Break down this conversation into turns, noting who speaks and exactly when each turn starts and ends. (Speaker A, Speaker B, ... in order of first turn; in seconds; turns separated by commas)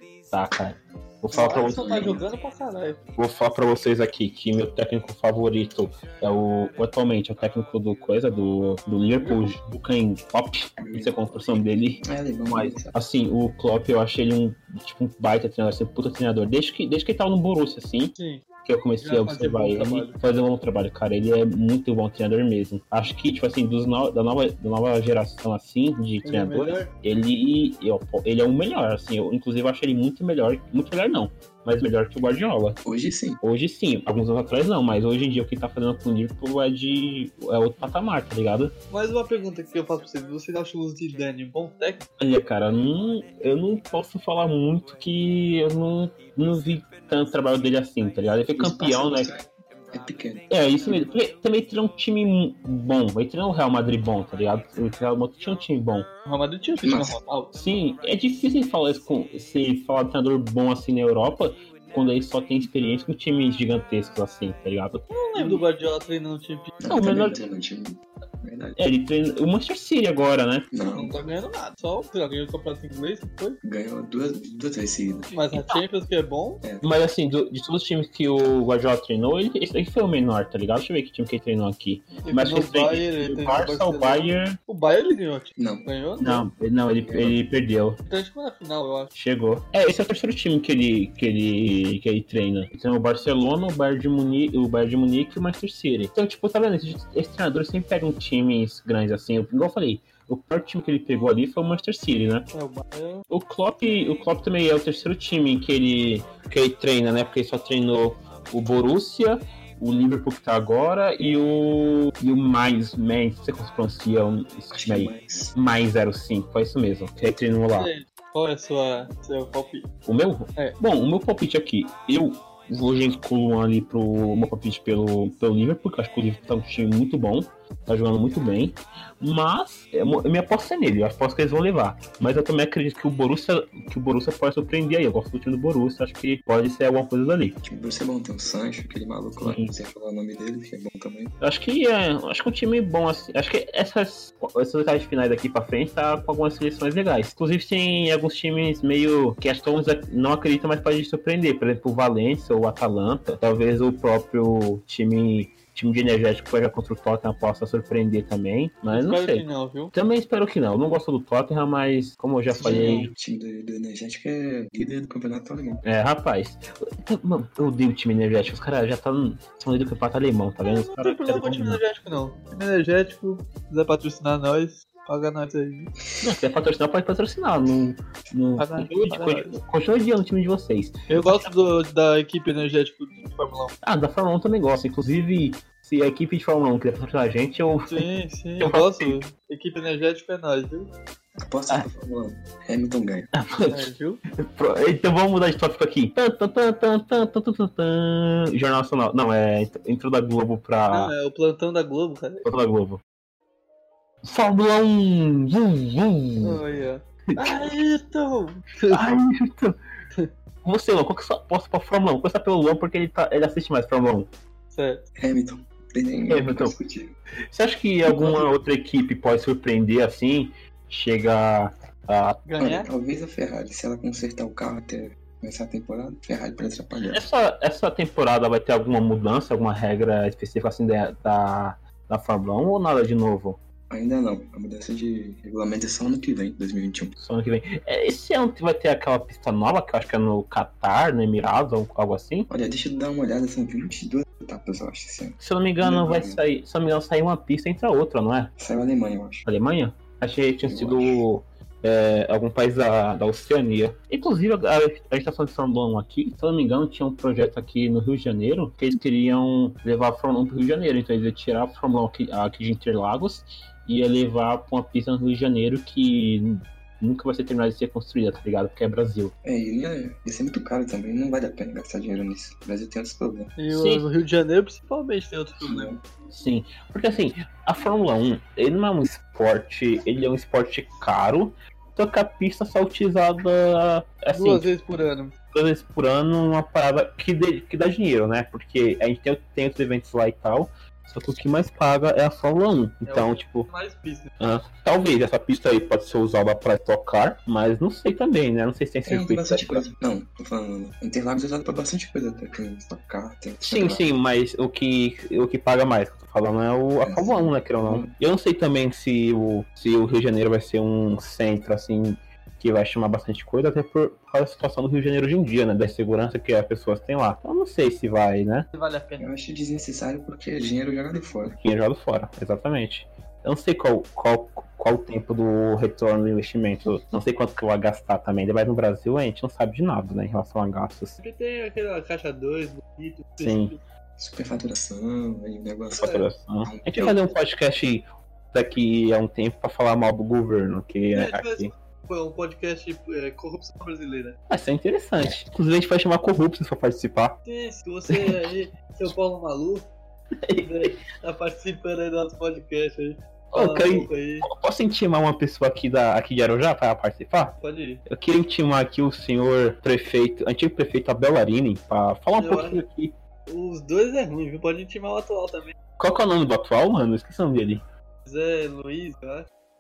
Speaker A: 0.3-2.2, Speaker B: 1.3-3.0, Speaker C: 1.5-2.3, Speaker A: 3.2-32.8, Speaker B: 9.2-9.6, Speaker C: 10.8-12.9, Speaker B: 18.2-18.4, Speaker B: 19.0-20.2, Speaker B: 26.2-26.9, Speaker C: 32.9-33.4, Speaker A: 33.4-38.8, Speaker B: 38.9-42.0, Speaker A: 42.2-49.3, Speaker C: 48.5-51.1, Speaker A: 50.5-56.1, Speaker B: 56.3-57.5, Speaker C: 56.8-57.2, Speaker A: 57.5-65.1, Speaker B: 65.1-66.7, Speaker C: 66.8-68.8, Speaker A: 66.9-67.4, Speaker A: 68.8-70.7, Speaker C: 70.7-71.1, Speaker B: 70.9-73.6, Speaker C: 73.6-75.3, Speaker B: 75.3-76.6, Speaker A: 75.5-75.8, Speaker A: 76.8-84.6, Speaker B: 82.2-86.5, Speaker C: 85.6-85.9, Speaker A: 86.2-88.0, Speaker C: 87.0-87.4, Speaker B: 88.1-89.1, Speaker A: 89.1-102.5, Speaker B: 102.5-103.2, Speaker A: 103.3-117.9, Speaker C: 114.7-115.5, Speaker B: 117.7-119.9, Speaker A: 120.0-137.6, Speaker C: 137.6-141.3, Speaker A: 139.4-139.7, Speaker A: 141.4-163.1, Speaker B: 158.9-159.9, Speaker C: 162.5-165.8, Speaker B: 162.6-163.1, Speaker A: 165.8-171.8, Speaker B: 170.6-175.9, Speaker A: 176.2-181.5, Speaker B: 178.6-179.6, Speaker B: 181.1-183.8, Speaker A: 183.8-188.1, Speaker B: 187.9-190.9, Speaker A: 188.6-189.2, Speaker C: 191.4-193.3, Speaker A: 193.3-193.9, Speaker B: 193.7-194.2, Speaker A: 194.4-201.1, Speaker B: 200.9-202.5, Speaker A: 202.4-203.0, Speaker A: 204.2-206.6, Speaker B: 206.4-209.1, Speaker A: 208.9-209.8, Speaker A: 210.6-214.3, Speaker B: 214.7-215.1, Speaker C: 215.2-217.1, Speaker A: 216.3-216.8, Speaker A: 217.5-222.4, Speaker B: 218.1-218.4, Speaker B: 222.5-222.9, Speaker C: 222.6-227.2, Speaker A: 227.1-233.6, Speaker C: 233.9-237.2, Speaker A: 237.2-242.5, Speaker C: 242.5-246.4, Speaker A: 245.4-248.5, Speaker C: 248.6-249.4, Speaker A: 249.4-269.3, Speaker C: 250.7-251.2, Speaker C: 269.4-273.5, Speaker B: 273.6-275.9, Speaker A: 273.7-274.1, Speaker C: 275.6-276.0, Speaker A: 276.3-284.7, Speaker B: 284.3-285.3, Speaker A: 285.5-293.7, Speaker B: 293.1-294.3, Speaker A: 294.4-299.9, Speaker C: 299.1-304.1, Speaker A: 303.6-318.7, Speaker C: 307.0-308.1, Speaker B: 318.7-319.3, Speaker C: 319.2-321.6, Speaker A: 321.6-331.2, Speaker B: 331.2-333.8, Speaker A: 333.4-333.8, Speaker C: 334.2-337.4, Speaker B: 336.0-336.3, Speaker A: 336.0-341.7, Speaker B: 341.1-344.4, Speaker A: 344.5-347.4, Speaker B: 347.4-349.9, Speaker A: 348.1-348.4, Speaker A: 350.5-351.0, Speaker B: 350.6-354.5, Speaker A: 353.5-357.6, Speaker B: 357.6-358.0, Speaker A: 358.1-363.1, Speaker B: 362.4-362.8, Speaker B: 363.5-365.7, Speaker A: 366.0-367.8, Speaker B: 368.3-369.5